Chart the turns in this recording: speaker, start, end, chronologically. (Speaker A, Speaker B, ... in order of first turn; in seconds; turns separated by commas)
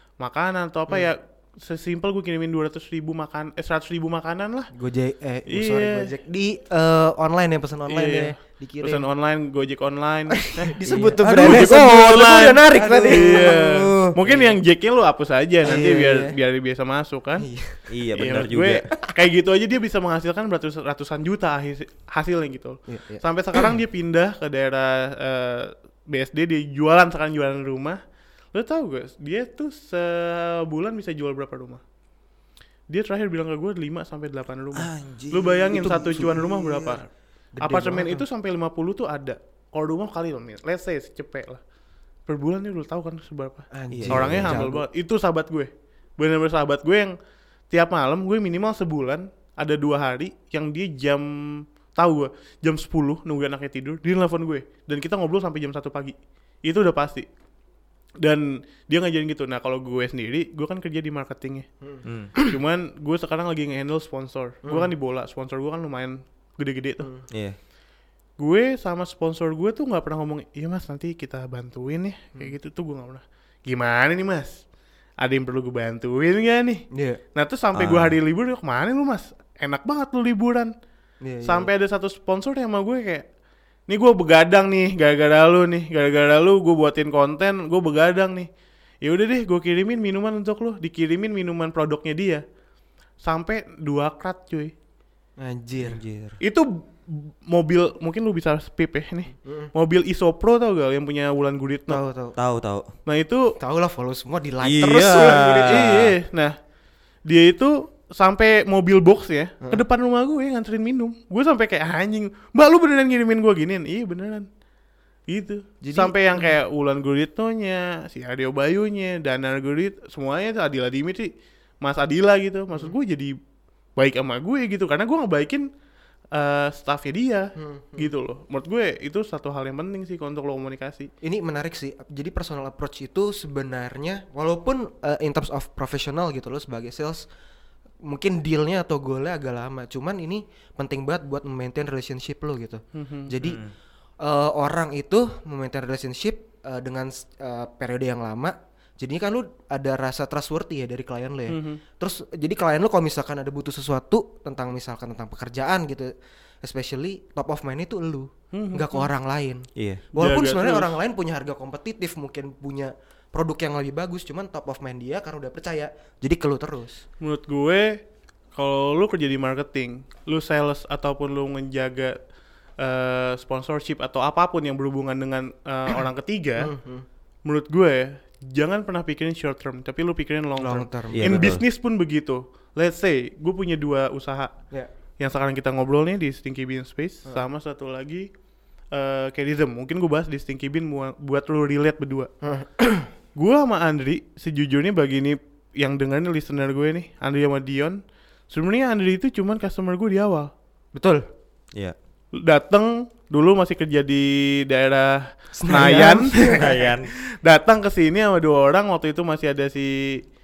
Speaker A: 0.2-4.7, Speaker B: 4.7-9.0, Speaker A: 5.5-6.1, Speaker A: 7.9-17.5, Speaker B: 10.5-13.6, Speaker C: 10.9-14.1, Speaker B: 14.2-14.5, Speaker B: 15.6-16.3, Speaker B: 17.4-17.8, Speaker C: 17.9-18.8, Speaker A: 18.2-28.0, Speaker B: 22.9-23.7, Speaker A: 28.5-31.8, Speaker A: 32.9-37.0, Speaker C: 34.7-37.0, Speaker B: 35.6-36.3, Speaker B: 37.5-38.2, Speaker A: 37.6-41.6, Speaker A: 42.3-47.1, Speaker B: 43.7-44.8, Speaker C: 43.9-44.7, Speaker A: 47.7-57.2, Speaker A: 58.2-61.6, Speaker B: 61.8-62.5, Speaker C: 62.0-62.3, Speaker A: 62.4-67.1, Speaker C: 67.3-67.6, Speaker A: 68.4-74.6, Speaker A: 75.2-76.8, Speaker B: 76.9-77.2, Speaker A: 77.3-80.7, Speaker C: 77.7-78.1, Speaker B: 81.2-81.7, Speaker A: 81.5-83.2, Speaker A: 83.9-88.5, Speaker A: 89.0-92.4, Speaker A: 93.2-94.7, Speaker B: 95.4-96.0, Speaker C: 95.8-96.4, Speaker A: 96.4-102.0, Speaker B: 101.9-102.3, Speaker C: 102.4-102.8, Speaker A: 103.0-103.5, Speaker B: 103.6-105.9, Speaker C: 104.6-106.1, Speaker A: 105.4-106.5, Speaker A: 107.3-114.5, Speaker A: 115.3-121.3, Speaker B: 115.8-116.5, Speaker A: 121.8-123.3, Speaker A: 124.0-125.7, Speaker A: 126.3-131.1, Speaker B: 127.5-128.1, Speaker B: 131.2-137.2, Speaker B: 138.0-143.6, Speaker A: 142.9-143.3, Speaker C: 143.4-143.7, Speaker B: 144.2-156.1, Speaker A: 151.5-151.8, Speaker B: 156.6-159.6, Speaker A: 158.5-159.1, Speaker C: 159.8-160.0, Speaker B: 160.2-167.0, Speaker A: 160.2-160.9, Speaker A: 167.2-168.0, Speaker A: 168.6-172.2, Speaker A: 172.8-176.7, Speaker B: 176.6-177.0, Speaker A: 177.4-184.5, Speaker B: 180.6-181.3, Speaker C: 181.1-181.6, Speaker A: 185.2-188.3, Speaker A: 188.9-192.3, Speaker B: 192.4-193.1, Speaker A: 193.4-198.0, Speaker A: 198.5-200.5, Speaker B: 200.9-201.2, Speaker A: 202.4-206.6, Speaker B: 205.6-206.7, Speaker C: 206.6-207.1, Speaker A: 207.4-210.2